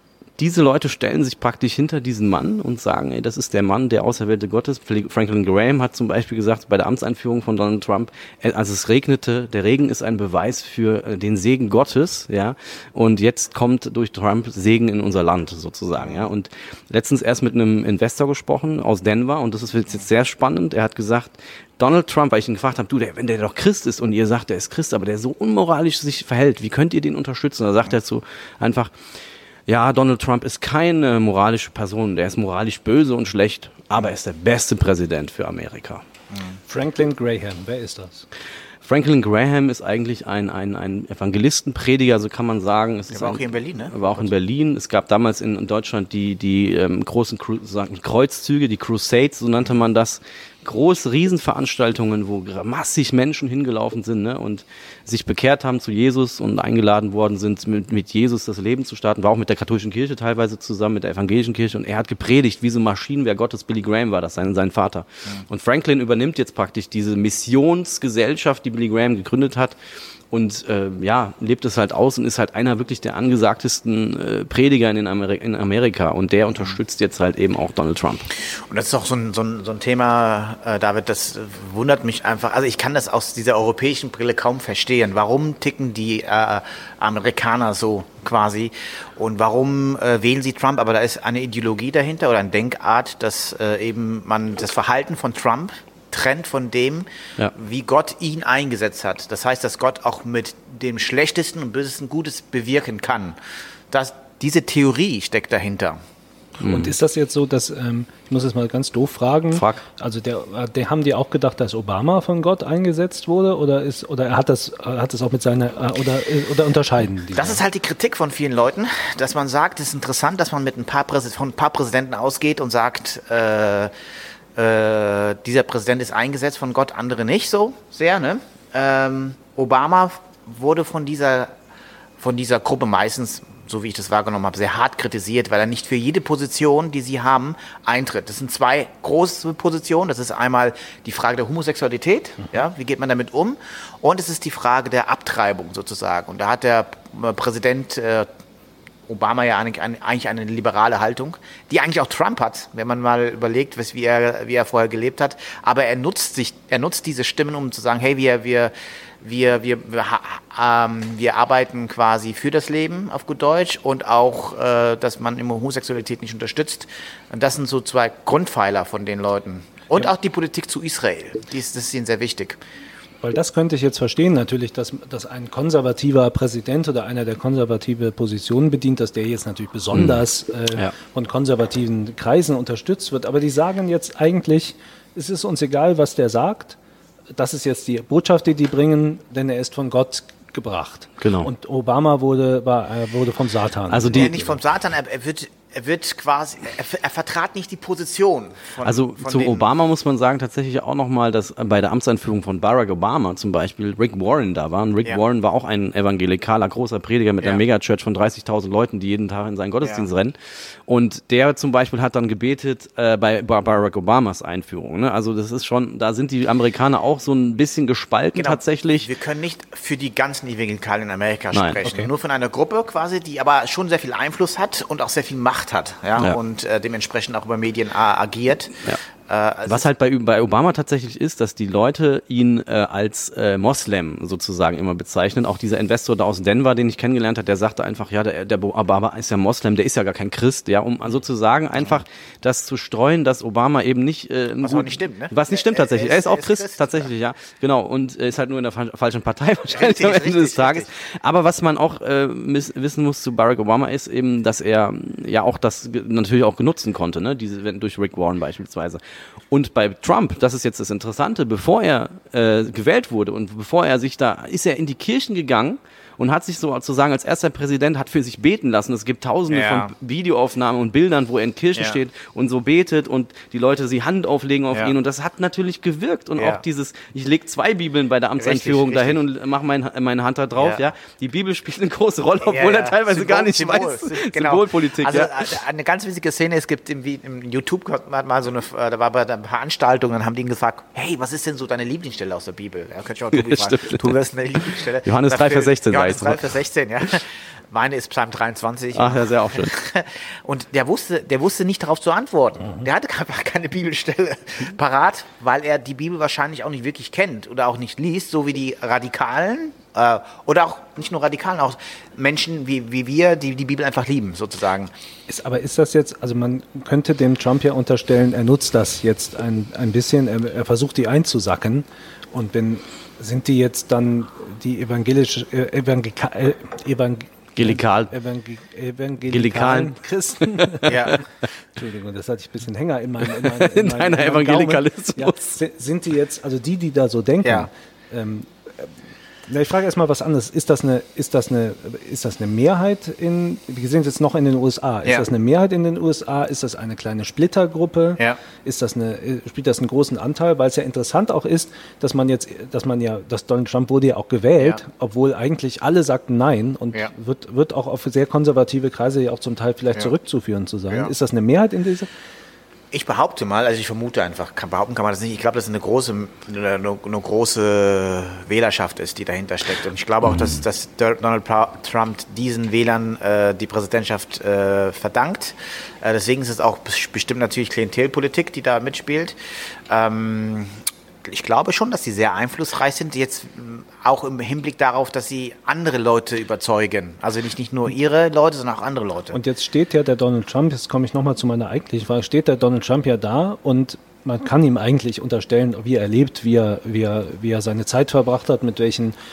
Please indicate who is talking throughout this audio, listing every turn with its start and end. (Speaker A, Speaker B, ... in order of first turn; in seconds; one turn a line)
Speaker A: 0.4-28.9
Speaker A: 29.7-36.0
Speaker B: 36.3-36.6
Speaker C: 36.7-38.2
Speaker A: 38.8-69.8
Speaker B: 43.1-44.3
Speaker A: 70.3-78.3
Speaker B: 78.4-103.4
Speaker B: 103.9-106.0
Speaker A: 106.6-106.9
Speaker C: 106.7-117.6
Speaker A: 109.5-109.8
Speaker B: 117.3-123.9
Speaker B: 124.5-131.5
Speaker B: 132.2-148.3
Speaker B: 149.1-172.6
Speaker C: 173.2-186.8
Speaker A: 179.9-180.2
Speaker C: 187.3-194.6
Speaker A: 191.2-191.5
Speaker A: 193.9-194.3
Speaker B: 194.1-199.7
Speaker A: 198.8-210.3
Speaker B: 209.8-210.1
Speaker A: 210.9-219.1
Speaker B: 218.3-229.9
Speaker A: 221.5-221.9
Speaker A: 229.7-259.0
Speaker B: 244.6-247.1
Speaker B: 249.7-250.9
Speaker A: 259.5-285.6
Speaker B: 269.5-269.9
Speaker B: 276.4-276.6
Speaker B: 278.4-279.2
Speaker B: 280.6-280.9
Speaker B: 282.4-314.9
Speaker A: 293.3-294.1
Speaker A: 294.7-296.5
Speaker A: 298.9-299.7
Speaker C: 315.3-331.2
Speaker A: 327.6-328.1
Speaker A: 329.3-329.9
Speaker A: 330.6-331.2
Speaker B: 330.9-331.2
Speaker C: 331.8-338.9
Speaker A: 333.2-335.6
Speaker B: 337.4-337.7
Speaker C: 339.5-362.1
Speaker B: 362.9-379.4
Speaker A: 370.2-370.6
Speaker B: 379.9-389.4
Speaker C: 389.3-399.1